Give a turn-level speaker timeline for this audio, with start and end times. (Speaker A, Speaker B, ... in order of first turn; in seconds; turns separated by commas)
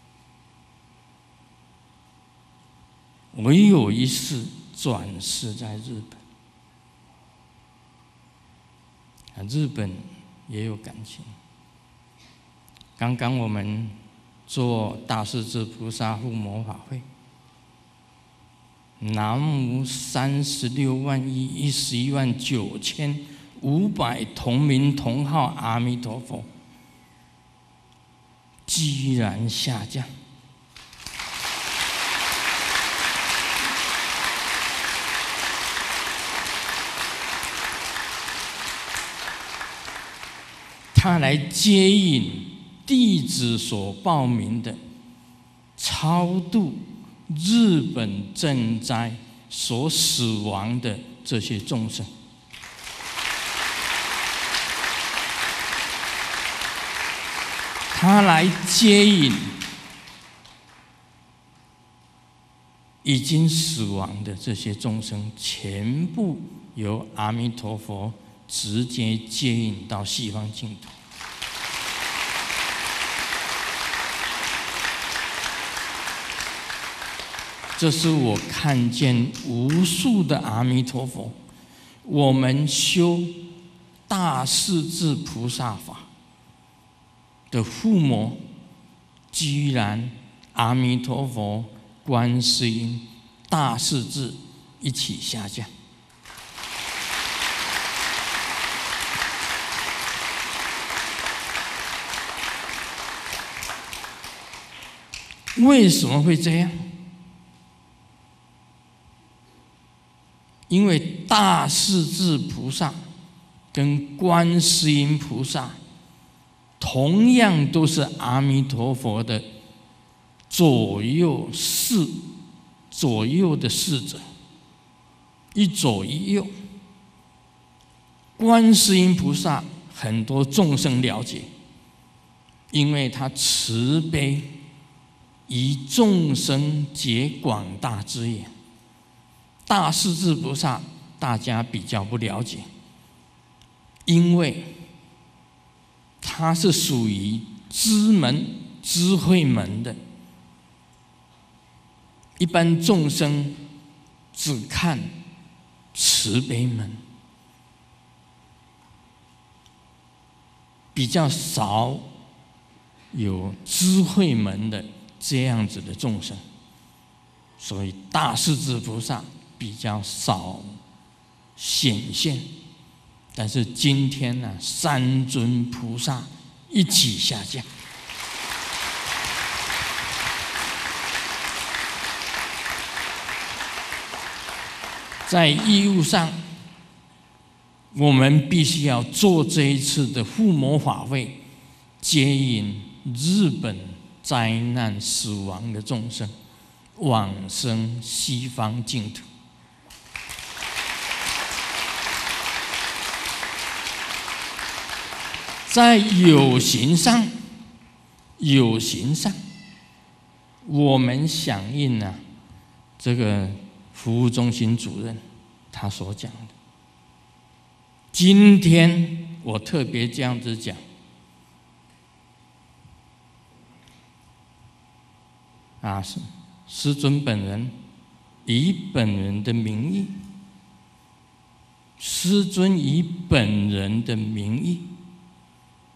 Speaker A: 3.3-6.2, Speaker A: 9.3-11.3, Speaker A: 13.0-13.9, Speaker A: 14.5-17.0, Speaker A: 19.0-26.5, Speaker A: 28.6-30.1, Speaker A: 40.9-44.8, Speaker A: 45.8-52.1, Speaker A: 57.9-59.6, Speaker A: 63.0-70.9, Speaker A: 77.7-81.3, Speaker A: 82.0-83.4, Speaker A: 84.1-86.1, Speaker A: 87.5-88.4, Speaker A: 89.3-95.7, Speaker A: 105.5-106.9, Speaker A: 110.7-113.0, Speaker A: 113.7-115.8, Speaker A: 116.8-119.5, Speaker A: 120.5-122.2, Speaker A: 122.9-124.2, Speaker A: 125.5-126.5, Speaker A: 128.4-131.5, Speaker A: 132.7-134.5, Speaker A: 135.5-138.5, Speaker A: 139.7-142.7, Speaker A: 144.1-144.7, Speaker A: 146.2-150.0, Speaker A: 152.4-153.6, Speaker A: 154.3-155.1, Speaker A: 155.9-157.0, Speaker A: 160.9-162.1, Speaker A: 163.1-166.4, Speaker A: 167.6-170.8, Speaker A: 171.6-172.5, Speaker A: 173.3-177.7, Speaker A: 185.2-186.4, Speaker A: 187.9-191.4, Speaker A: 192.0-196.3, Speaker A: 196.9-199.2, Speaker A: 205.7-207.3, Speaker A: 208.4-209.3, Speaker A: 210.6-212.2, Speaker A: 213.0-215.2, Speaker A: 215.7-216.5, Speaker A: 218.1-220.8, Speaker A: 225.8-227.7, Speaker A: 228.4-230.1, Speaker A: 232.0-234.9